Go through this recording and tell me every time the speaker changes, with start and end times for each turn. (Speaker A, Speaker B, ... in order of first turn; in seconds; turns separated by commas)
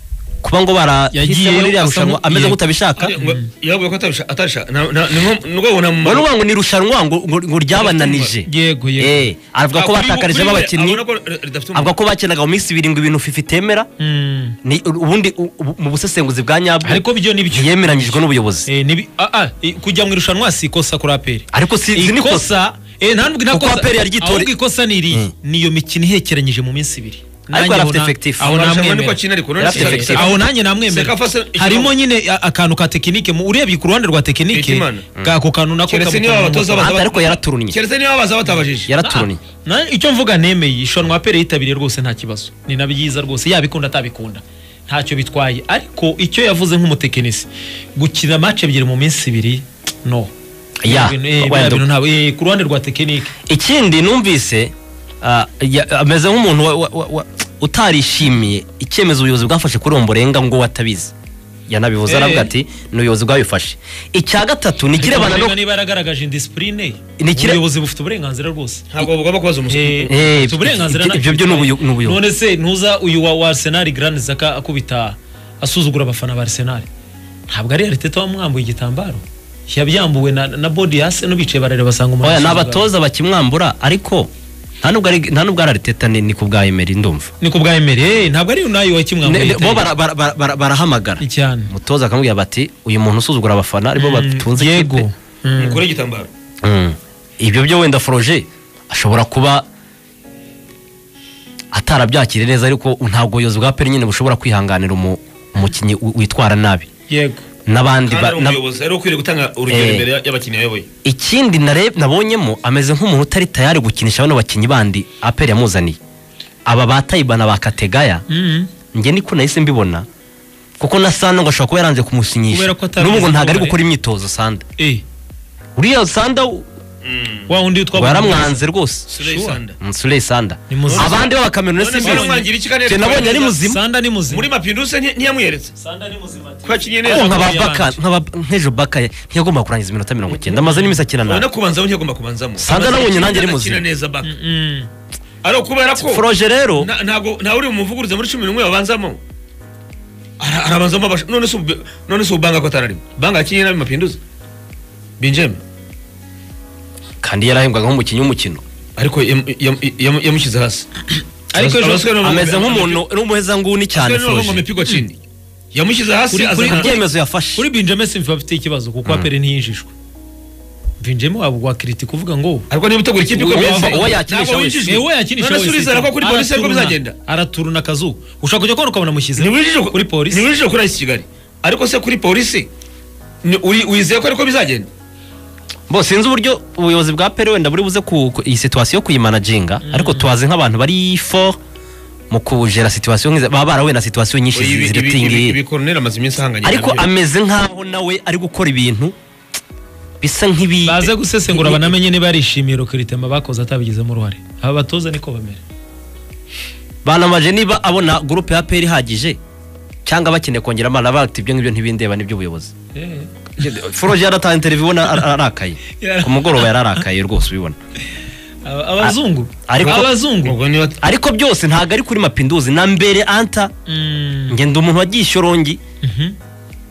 Speaker A: 0.4-3.2, Speaker B: 1.1-2.6, Speaker C: 3.0-6.3, Speaker B: 3.2-3.4, Speaker A: 6.0-11.0, Speaker C: 7.7-8.3, Speaker B: 8.4-9.3, Speaker C: 9.7-11.9, Speaker A: 11.7-13.9, Speaker B: 14.0-14.6, Speaker A: 14.6-18.7, Speaker B: 16.8-36.9, Speaker A: 21.5-22.5, Speaker A: 23.5-24.5, Speaker A: 27.5-28.5, Speaker C: 28.4-31.9, Speaker A: 29.6-30.3, Speaker C: 34.5-35.1, Speaker C: 35.9-38.9, Speaker A: 36.8-37.8, Speaker A: 38.9-39.4, Speaker B: 39.0-50.3, Speaker A: 50.8-51.8, Speaker B: 50.9-53.3, Speaker A: 53.5-61.1, Speaker A: 61.7-65.6, Speaker B: 62.1-62.5, Speaker B: 64.9-68.9, Speaker A: 67.2-67.6, Speaker C: 68.9-70.1, Speaker B: 69.7-76.9, Speaker A: 70.1-72.2, Speaker B: 77.5-82.9, Speaker A: 82.2-84.3, Speaker A: 84.8-87.3, Speaker B: 87.4-89.9, Speaker A: 89.2-95.1, Speaker B: 91.2-91.7, Speaker B: 93.9-95.8, Speaker C: 95.6-96.3, Speaker A: 96.6-99.7, Speaker A: 101.7-106.9, Speaker B: 107.1-107.4, Speaker A: 107.7-108.6, Speaker C: 108.1-110.9, Speaker A: 109.7-110.1, Speaker A: 111.0-116.0, Speaker A: 116.7-118.2, Speaker B: 118.3-118.7, Speaker A: 118.9-120.1, Speaker A: 120.8-124.7, Speaker B: 122.5-123.8, Speaker B: 124.8-125.0, Speaker A: 125.8-126.7, Speaker C: 127.0-127.5, Speaker B: 127.5-128.6, Speaker A: 127.9-129.1, Speaker C: 129.1-129.8, Speaker B: 129.2-129.6, Speaker A: 129.8-133.8, Speaker B: 130.7-131.2, Speaker C: 130.9-133.6, Speaker B: 131.9-132.5, Speaker B: 133.6-134.5, Speaker C: 134.3-135.7, Speaker B: 135.8-138.0, Speaker C: 136.7-137.4, Speaker A: 137.1-141.5, Speaker B: 140.5-141.0, Speaker C: 141.2-144.3, Speaker A: 142.6-143.8, Speaker B: 144.2-144.9, Speaker C: 145.4-146.2, Speaker A: 146.0-146.9, Speaker C: 146.8-149.2, Speaker C: 150.4-154.2, Speaker C: 155.2-155.6, Speaker A: 157.2-158.6, Speaker C: 159.0-161.0, Speaker B: 161.5-162.1, Speaker C: 161.6-163.0, Speaker A: 162.2-164.6, Speaker C: 163.9-165.2, Speaker C: 165.7-166.9, Speaker B: 166.3-167.0, Speaker A: 166.6-167.7, Speaker B: 167.6-169.9, Speaker B: 171.0-172.7, Speaker C: 172.7-177.2, Speaker A: 173.3-174.9, Speaker B: 173.5-174.1, Speaker B: 174.8-180.5, Speaker C: 179.4-182.7, Speaker C: 183.4-184.9, Speaker A: 185.9-191.6, Speaker B: 189.8-190.3, Speaker A: 192.3-195.6, Speaker C: 194.5-197.1, Speaker A: 196.6-199.2, Speaker A: 200.2-201.9, Speaker B: 200.8-205.6, Speaker A: 207.0-209.4, Speaker A: 210.1-212.7, Speaker B: 212.9-213.3, Speaker A: 213.6-217.8, Speaker B: 216.0-217.1, Speaker B: 218.6-220.6, Speaker A: 219.7-220.1, Speaker C: 219.8-221.0, Speaker A: 221.0-223.7, Speaker B: 223.8-224.6, Speaker A: 224.5-225.8, Speaker B: 226.0-226.3